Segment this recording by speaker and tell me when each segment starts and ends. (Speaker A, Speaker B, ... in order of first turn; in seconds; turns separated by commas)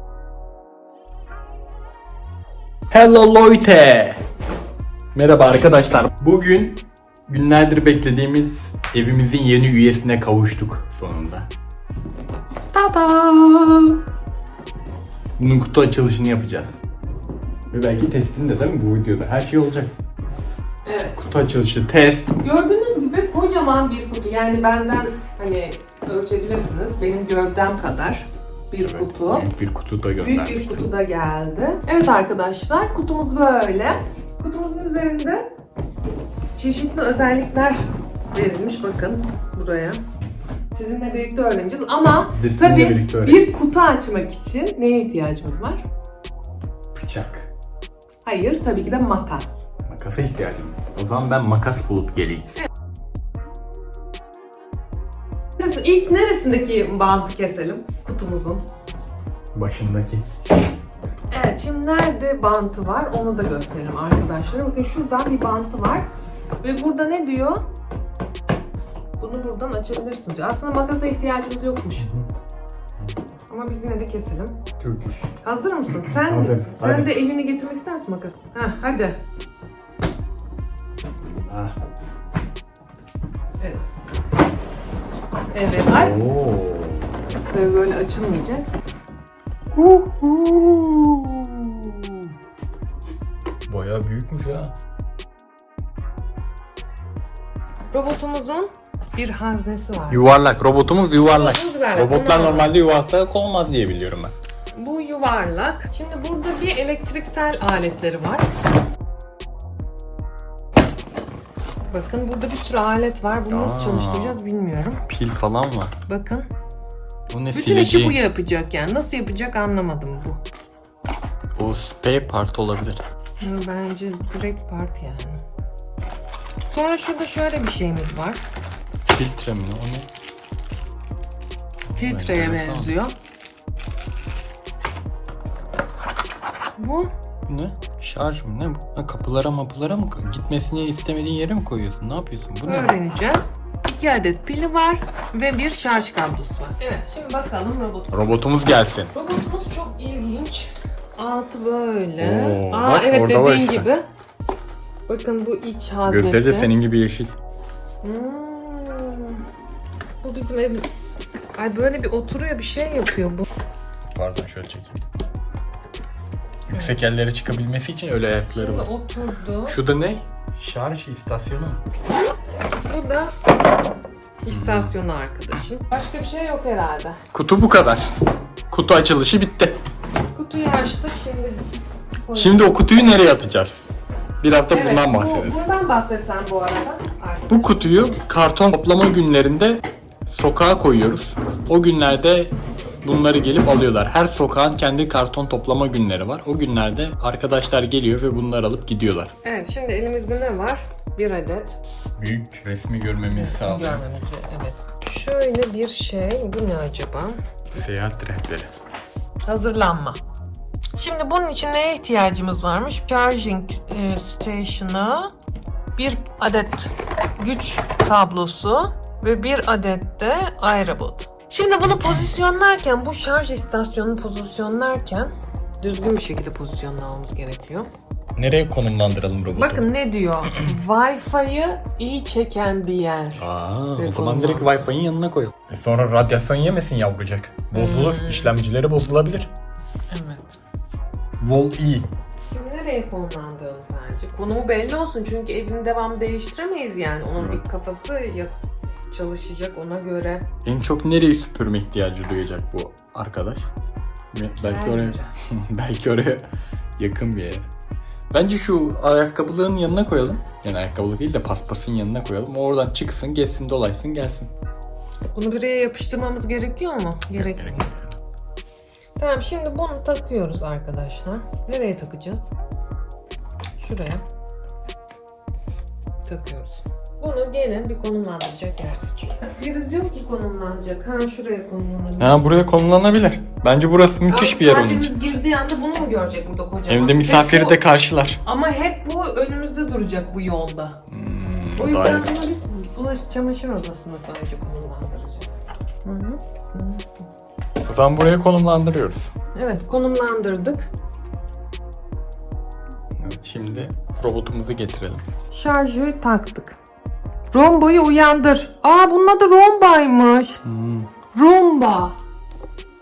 Speaker A: 2.9-4.2, Speaker A: 5.1-11.5, Speaker A: 12.7-14.0, Speaker A: 15.4-16.8, Speaker A: 17.7-19.9, Speaker B: 20.9-21.2, Speaker A: 21.2-22.3, Speaker B: 22.4-29.5, Speaker A: 28.8-30.9, Speaker B: 30.2-35.4, Speaker B: 36.6-37.8, Speaker B: 38.3-40.0, Speaker B: 40.7-45.9, Speaker A: 42.3-43.4, Speaker A: 46.9-47.5, Speaker B: 48.2-49.7, Speaker A: 49.9-52.5, Speaker B: 55.6-58.6, Speaker A: 59.5-60.2, Speaker B: 61.3-66.1, Speaker B: 66.6-67.6, Speaker B: 69.2-72.1, Speaker A: 72.0-72.3, Speaker B: 73.5-74.6, Speaker A: 74.8-75.3, Speaker B: 75.4-79.2, Speaker A: 76.0-77.1, Speaker A: 81.2-81.8, Speaker B: 85.5-86.2, Speaker A: 85.9-87.1, Speaker B: 87.5-88.7, Speaker A: 89.8-91.4, Speaker B: 91.7-92.1, Speaker A: 93.7-94.7, Speaker B: 97.9-100.3, Speaker A: 100.1-104.3, Speaker B: 101.2-102.8, Speaker B: 104.8-108.5, Speaker B: 111.9-115.0, Speaker A: 113.5-114.4, Speaker A: 115.1-115.9, Speaker B: 116.1-116.5, Speaker A: 117.3-118.2, Speaker B: 117.5-120.4, Speaker A: 121.6-123.0, Speaker B: 123.4-125.4, Speaker B: 126.7-128.4, Speaker A: 129.1-130.1, Speaker A: 131.9-132.9, Speaker B: 132.0-133.1, Speaker B: 136.8-137.1, Speaker A: 137.5-143.0, Speaker B: 142.7-148.2, Speaker A: 148.1-149.1, Speaker B: 149.1-154.1, Speaker A: 152.2-153.9, Speaker B: 155.1-156.7, Speaker A: 156.1-157.3, Speaker B: 158.0-159.4, Speaker B: 160.2-160.8, Speaker B: 161.6-163.5, Speaker A: 164.1-165.0, Speaker A: 166.7-168.9, Speaker B: 168.5-169.8, Speaker A: 169.7-171.8, Speaker B: 172.8-173.3, Speaker B: 174.4-177.2, Speaker A: 174.5-174.9, Speaker A: 177.3-178.1, Speaker A: 178.7-179.8, Speaker B: 180.3-181.7, Speaker B: 182.2-182.7, Speaker A: 182.3-183.9, Speaker A: 184.4-185.6, Speaker B: 184.7-187.9, Speaker A: 187.5-199.3, Speaker B: 199.4-201.8, Speaker A: 202.2-204.0, Speaker B: 203.3-207.4, Speaker A: 207.7-208.7, Speaker B: 209.4-210.2, Speaker B: 210.9-215.3, Speaker B: 216.0-227.9, Speaker A: 228.4-229.9, Speaker B: 229.5-233.4, Speaker A: 233.4-239.5, Speaker B: 234.0-234.8, Speaker B: 237.7-238.5, Speaker B: 240.1-240.6, Speaker A: 241.4-242.1, Speaker B: 242.5-248.5, Speaker A: 247.4-247.6, Speaker B: 249.1-250.5, Speaker A: 250.7-253.7, Speaker A: 254.3-256.5, Speaker B: 254.6-255.3, Speaker A: 257.0-257.7, Speaker A: 258.3-264.5, Speaker B: 265.3-267.9, Speaker A: 267.3-268.2, Speaker B: 269.2-272.5, Speaker B: 273.8-274.2, Speaker B: 276.3-282.4, Speaker A: 282.2-285.1, Speaker B: 284.3-287.8, Speaker A: 286.9-288.4, Speaker B: 288.4-291.0, Speaker A: 291.1-292.4, Speaker B: 291.8-295.5, Speaker B: 296.0-297.0, Speaker A: 297.8-299.3, Speaker B: 299.6-300.9, Speaker A: 303.2-305.2, Speaker B: 305.5-306.8, Speaker B: 307.5-310.6, Speaker A: 310.6-311.1, Speaker B: 311.3-312.1